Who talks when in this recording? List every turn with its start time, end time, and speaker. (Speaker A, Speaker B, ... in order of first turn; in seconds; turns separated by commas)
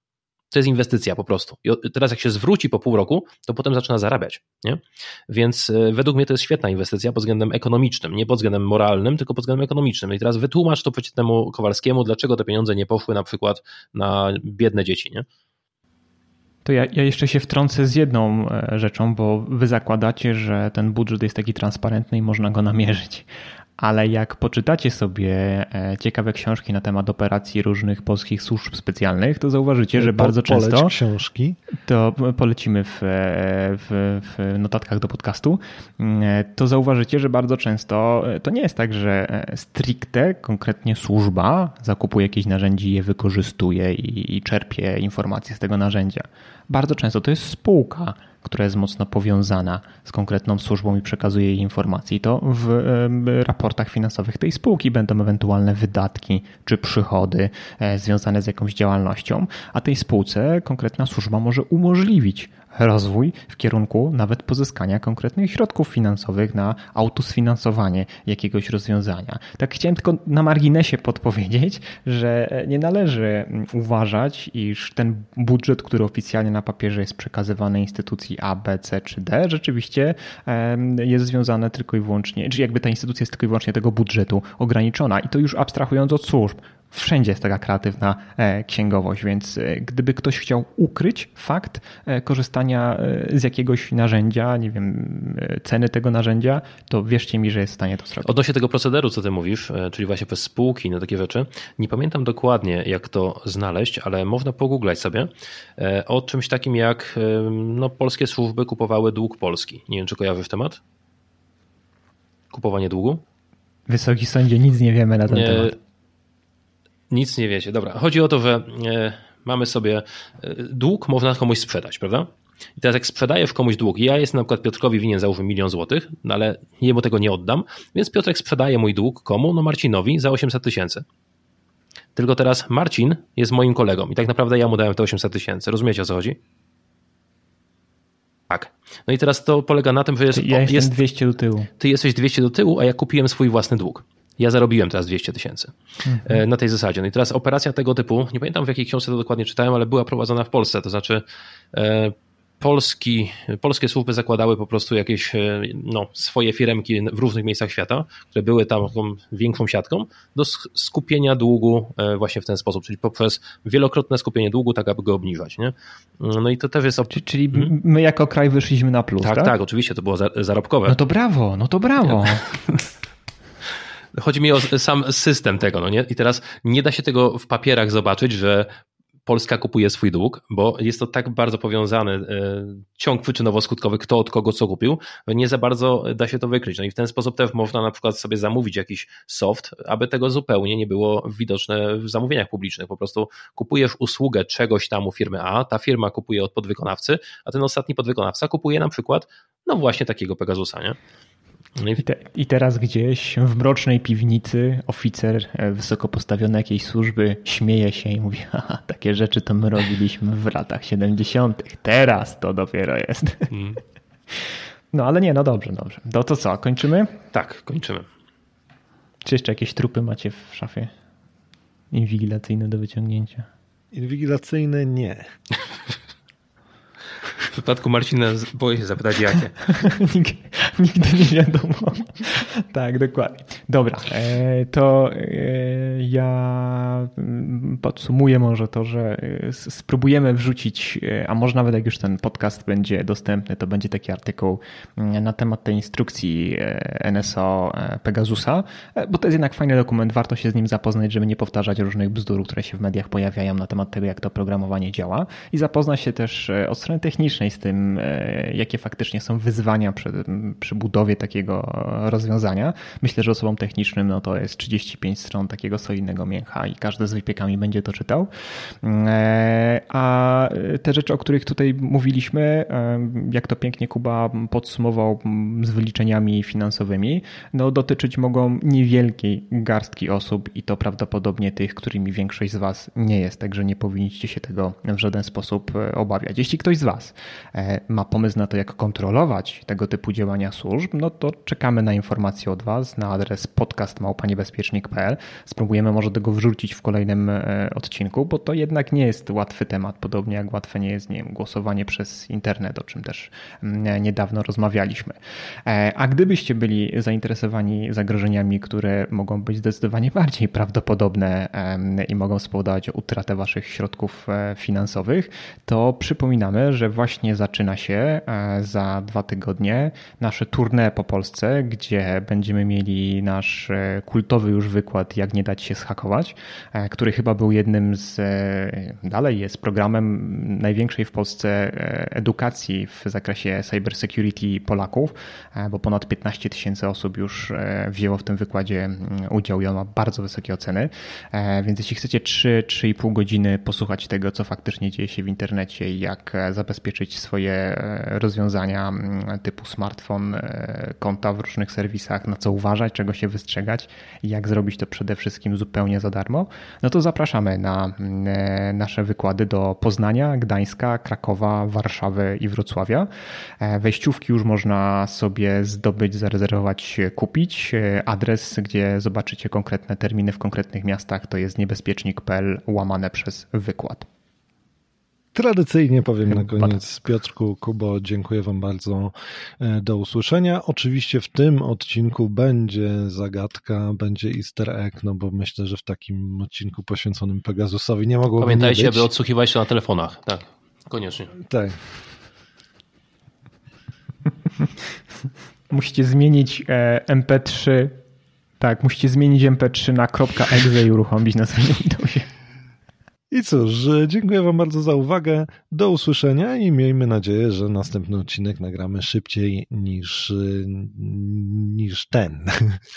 Speaker A: 0.5-15.2, Speaker B: 16.6-30.9, Speaker C: 29.9-31.6, Speaker B: 31.8-98.4, Speaker A: 98.2-110.8, Speaker A: 112.5-113.2, Speaker B: 113.9-115.7, Speaker A: 115.3-115.8, Speaker A: 117.1-131.0, Speaker A: 132.1-136.4, Speaker A: 138.5-141.0, Speaker B: 140.3-141.7, Speaker A: 141.8-167.7, Speaker B: 146.0-146.4, Speaker B: 167.1-169.5, Speaker A: 169.2-171.0, Speaker B: 170.9-172.5, Speaker A: 174.1-178.7, Speaker A: 179.2-201.0, Speaker A: 201.8-202.0, Speaker B: 202.0-213.5, Speaker A: 213.5-213.8, Speaker B: 214.3-217.1, Speaker A: 217.3-218.1, Speaker B: 219.2-220.9, Speaker B: 221.9-223.5, Speaker C: 223.9-225.3, Speaker A: 227.5-229.6, Speaker B: 229.6-268.3, Speaker B: 268.8-363.1, Speaker B: 363.6-374.1, Speaker C: 375.3-389.1, Speaker B: 376.3-376.8, Speaker A: 388.4-391.3, Speaker C: 391.4-391.8, Speaker B: 395.7-398.0, Speaker B: 398.6-402.3, Speaker C: 403.3-412.8